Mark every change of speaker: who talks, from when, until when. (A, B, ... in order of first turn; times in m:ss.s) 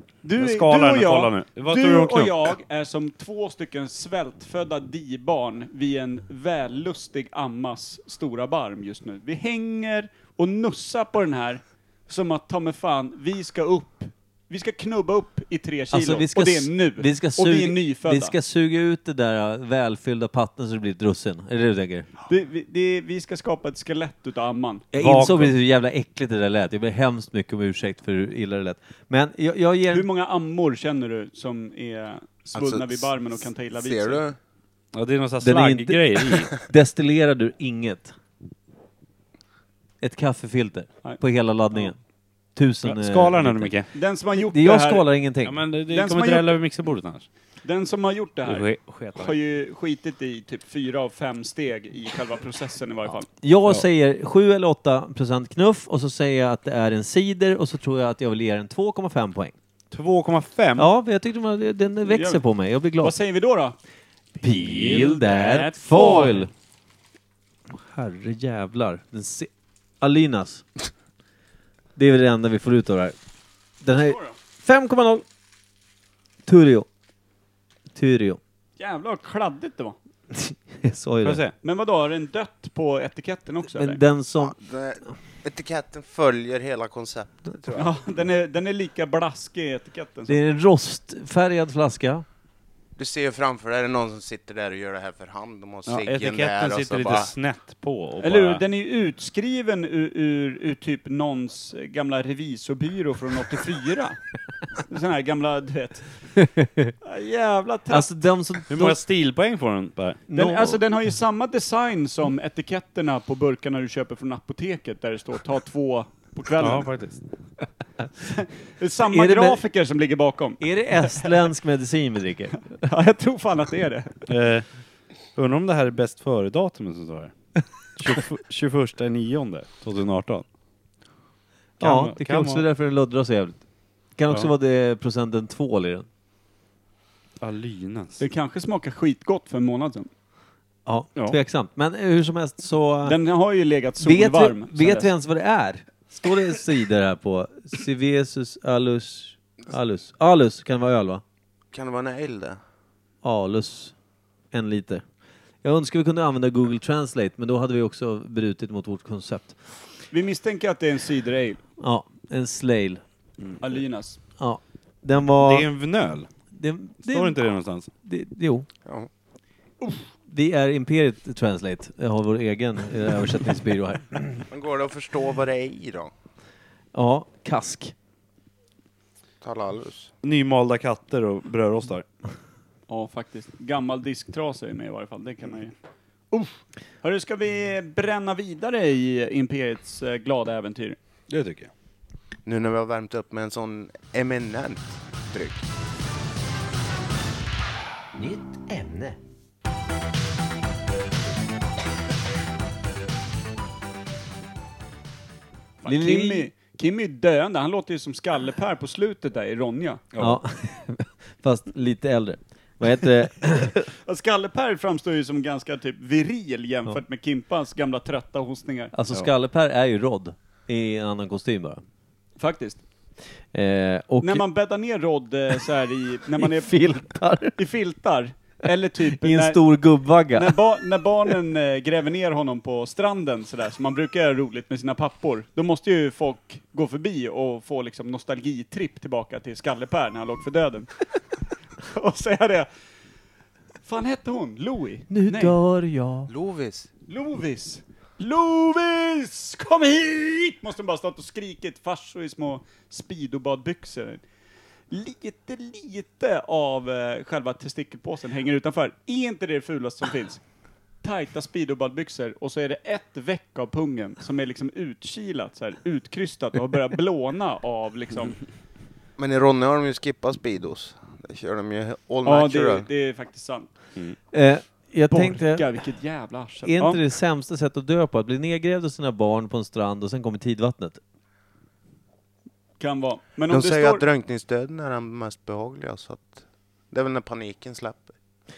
0:00.2-0:18.4 A
0:00.4-0:02.5 B
0:15.9-0:22.1 C
0:22.3-0:24.9 A
0:24.9-0:30.1 C
0:25.0-0:25.5 B
0:29.9-0:34.2 A
0:32.5-0:34.4 D
0:34.9-0:36.5 B
0:35.4-0:38.1 C
0:40.0-0:42.0 C
0:42.6-0:43.7 C
0:42.8-0:43.9 B
0:43.9-0:45.1 A
0:44.5-0:45.6 C
0:45.4-0:47.3 B
0:45.9-0:46.6 A
0:47.6-0:53.3 A
0:48.4-0:49.4 B
0:53.4-0:59.6 C
0:59.9-1:00.9 B
1:00.8-1:03.2 C
1:02.1-1:02.4 A
1:03.0-1:03.8 A
1:04.4-1:06.5 C
1:04.9-1:06.4 A
1:07.7-1:09.5 C
1:10.0-1:10.7 C
1:12.0-1:13.2 C
1:13.8-1:15.2 C
1:16.5-1:16.9 C
1:17.9-1:18.4 C
1:18.8-1:20.0 A
1:20.3-1:21.4 C
1:21.2-1:21.6 B
1:21.6-1:24.0 A
1:23.7-1:24.6 C
1:24.4-1:28.0 D
1:27.8-1:30.4 A
1:30.3-1:32.2 C
1:33.0-1:37.3 D
1:35.9-1:38.6 B
1:38.2-1:44.2 A
1:44.8-1:46.3 A
1:46.4-1:46.9 C
1:47.0-1:48.1 A
1:47.9-1:49.0 C
1:48.7-1:50.2 B
1:50.3-1:50.8 C
1:50.3-1:56.9 A
1:56.6-1:57.2 B
1:58.2-2:01.5 A
1:59.1-1:59.6 C
2:00.6-2:02.7 C
2:02.8-2:04.2 A
2:04.3-2:04.7 B
2:05.4-2:07.3 B
2:08.0-2:10.4 B
2:11.8-2:12.7 B
2:11.8-2:13.6 C
2:14.2-2:16.1 C
2:17.4-2:18.2 B
2:18.2-2:20.1 A
2:20.9-2:23.2 C
2:23.0-2:25.1 A
2:24.0-2:31.2 C
2:31.7-2:32.6 D
2:33.2-2:34.0 C
2:34.5-2:35.0 C
2:35.6-2:39.6 C
2:40.1-2:41.6 A
2:41.8-2:43.0 C
2:43.4-2:43.7 B
2:43.6-2:44.2 A
2:44.4-2:45.7 C
2:45.4-2:46.3 B
2:46.5-2:47.5 C
2:47.0-2:47.9 B
2:48.0-2:48.7 C
2:49.8-2:50.1 A
2:50.3-2:54.4 C
2:54.5-2:56.1 D
2:56.9-2:58.0 C
2:59.4-3:00.1 D
3:00.2-3:02.1 B
3:02.9-3:05.8 A
3:06.3-3:11.0 A
3:11.3-3:11.7 B
3:12.4-3:15.6 D
3:18.2-3:19.2 C
3:25.8-3:30.0 A
3:25.9-3:26.5 C
3:30.1-3:30.4 B
3:30.2-3:33.8 C
3:33.8-3:38.9 A
3:38.9-3:41.8 C
3:42.4-3:42.8 A
3:43.5-3:44.4 C
3:44.2-3:47.0 A
3:46.4-3:47.6 C
3:47.6-3:49.6 A
3:49.2-3:50.6 C
3:50.3-4:01.1 A
4:01.8-4:02.7 A
4:03.8-4:05.6 A
4:05.1-4:06.3 C
4:06.3-4:06.9 D
4:07.1-4:14.2 A
4:14.9-4:20.4 A
4:21.0-4:28.4 A
4:29.2-4:32.9 D
4:32.2-4:33.7 A
4:34.3-4:35.7 C
4:35.1-4:37.0 A
4:36.6-4:41.0 C
4:42.8-4:44.0 A
4:43.5-4:48.1 D